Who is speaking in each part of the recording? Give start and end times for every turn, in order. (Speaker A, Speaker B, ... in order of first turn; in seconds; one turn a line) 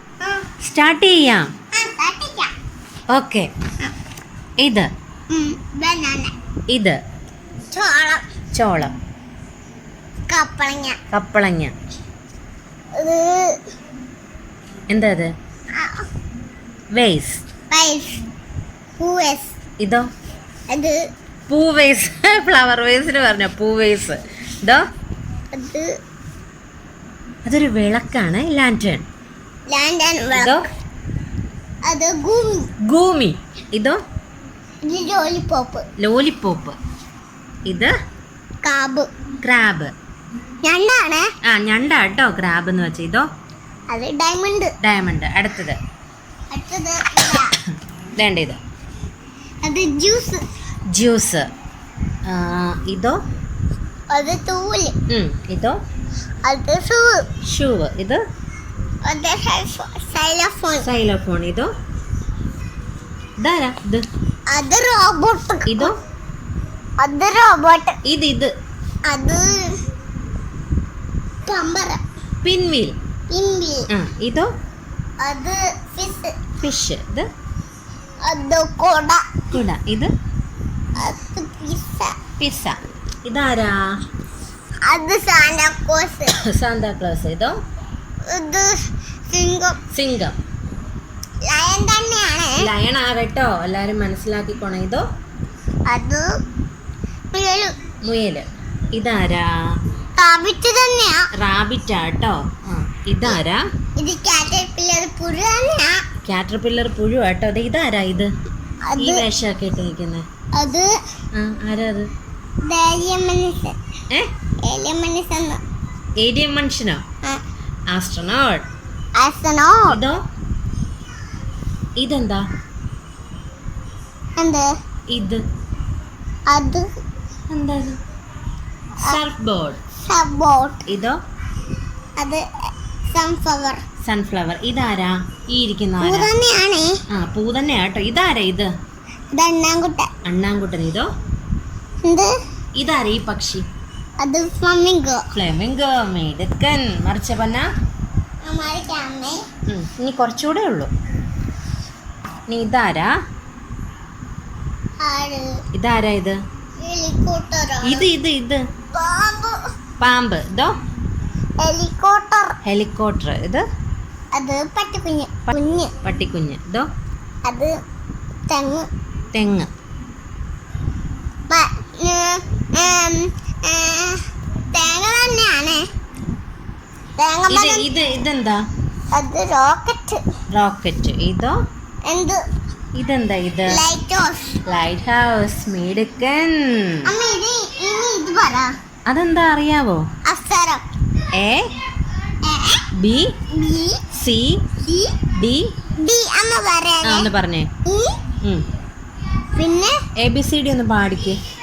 Speaker A: 0.6-1.5
Speaker B: 1.7-2.5
Speaker A: 3.1-3.5
Speaker A: 4.6-4.9
Speaker B: 5.3-6.3
Speaker A: 6.7-7.0
Speaker B: 7.7-8.2
Speaker A: 8.5-8.9
Speaker B: 10.3-11.0
Speaker A: 11.1-11.7
Speaker B: 13.0-13.6
Speaker A: 14.9-15.3
Speaker B: 15.7-16.1
Speaker A: 16.9-17.4
Speaker B: 17.7-18.2
Speaker B: 19.0-19.5
Speaker A: 19.8-20.1
Speaker B: 20.7-21.0
Speaker A: 21.5-24.8
Speaker B: 25.5-25.9
Speaker A: 27.4-29.1
Speaker B: 29.7-30.6
Speaker A: 30.3-30.7
Speaker B: 31.8-32.7
Speaker A: 32.9-34.0
Speaker B: 34.8-35.9
Speaker A: 36.0-36.7
Speaker A: 37.6-37.9
Speaker B: 38.6-39.1
Speaker A: 39.4-39.9
Speaker B: 40.6-41.3
Speaker A: 41.4-43.2
Speaker B: 43.9-44.7
Speaker A: 44.8-45.8
Speaker B: 46.5-47.5
Speaker A: 48.2-48.6
Speaker B: 49.6-50.4
Speaker A: 50.9-51.5
Speaker A: 52.2-53.2
Speaker B: 54.1-54.9
Speaker A: 55.1-55.8
Speaker B: 56.4-57.2
Speaker A: 57.4-58.2
Speaker B: 59.0-60.9
Speaker A: 60.8-61.7
Speaker A: 63.4-64.1
Speaker B: 64.5-65.9
Speaker A: 65.7-66.0
Speaker B: 67.0-68.0
Speaker A: 68.0-68.5
Speaker B: 69.1-69.8
Speaker B: 71.4-72.0
Speaker A: 72.4-72.9
Speaker B: 73.3-73.9
Speaker A: 73.9-74.5
Speaker B: 75.2-76.3
Speaker A: 76.6-77.3
Speaker B: 78.2-79.4
Speaker A: 79.5-80.1
Speaker B: 81.0-82.2
Speaker A: 82.4-83.8
Speaker B: 84.8-86.4
Speaker A: 86.3-87.6
Speaker B: 88.3-89.8
Speaker A: 89.9-90.3
Speaker B: 91.5-92.6
Speaker A: 92.6-95.0
Speaker B: 95.9-96.2
Speaker B: 97.3-97.7
Speaker A: 98.0-99.5
Speaker B: 100.2-101.3
Speaker A: 101.3-103.6
Speaker B: 104.0-106.0
Speaker A: 106.2-108.3
Speaker B: 108.8-109.2
Speaker A: 109.0-110.2
Speaker B: 110.5-110.9
Speaker A: 111.3-112.1
Speaker B: 112.6-113.8
Speaker B: 114.6-115.6
Speaker A: 116.2-117.0
Speaker A: 117.9-118.7
Speaker B: 119.2-120.0
Speaker A: 119.9-120.2
Speaker A: 122.0-122.5
Speaker B: 124.4-124.7
Speaker A: 125.1-125.4
Speaker B: 126.5-126.8
Speaker A: 127.5-128.0
Speaker A: 129.0-129.8
Speaker B: 130.0-130.8
Speaker A: 130.9-131.2
Speaker B: 132.2-132.4
Speaker B: 133.1-133.8
Speaker A: 134.0-136.3
Speaker B: 136.0-136.9
Speaker A: 137.1-138.7
Speaker B: 139.3-140.1
Speaker A: 140.2-141.1
Speaker B: 142.0-142.3
Speaker A: 142.8-143.6
Speaker B: 144.2-145.3
Speaker A: 145.3-147.7
Speaker B: 148.4-149.4
Speaker A: 149.7-150.9
Speaker A: 152.5-153.1
Speaker B: 155.0-155.6
Speaker A: 155.7-156.4
Speaker B: 156.8-158.1
Speaker A: 157.8-158.6
Speaker B: 158.9-159.6
Speaker A: 160.0-160.7
Speaker B: 161.6-162.6
Speaker A: 162.6-163.6
Speaker B: 164.3-165.9
Speaker A: 166.0-166.9
Speaker B: 167.4-167.7
Speaker B: 168.5-168.9
Speaker A: 169.3-169.7
Speaker B: 171.5-175.8
Speaker B: 177.2-177.8
Speaker A: 177.5-178.6
Speaker B: 179.1-180.2
Speaker A: 180.5-181.6
Speaker B: 182.1-182.4
Speaker A: 182.9-183.8
Speaker B: 183.7-184.6
Speaker A: 184.7-187.1
Speaker B: 187.0-188.7
Speaker A: 189.1-190.1
Speaker B: 190.2-190.8
Speaker A: 191.3-191.7
Speaker B: 192.4-192.8
Speaker A: 192.9-193.3
Speaker B: 193.5-194.0
Speaker A: 194.1-194.6
Speaker B: 194.8-195.2
Speaker A: 195.3-195.7
Speaker B: 196.0-197.3
Speaker A: 197.0-197.7
Speaker B: 197.8-198.2
Speaker A: 198.4-198.7
Speaker B: 199.5-200.0
Speaker A: 200.2-201.4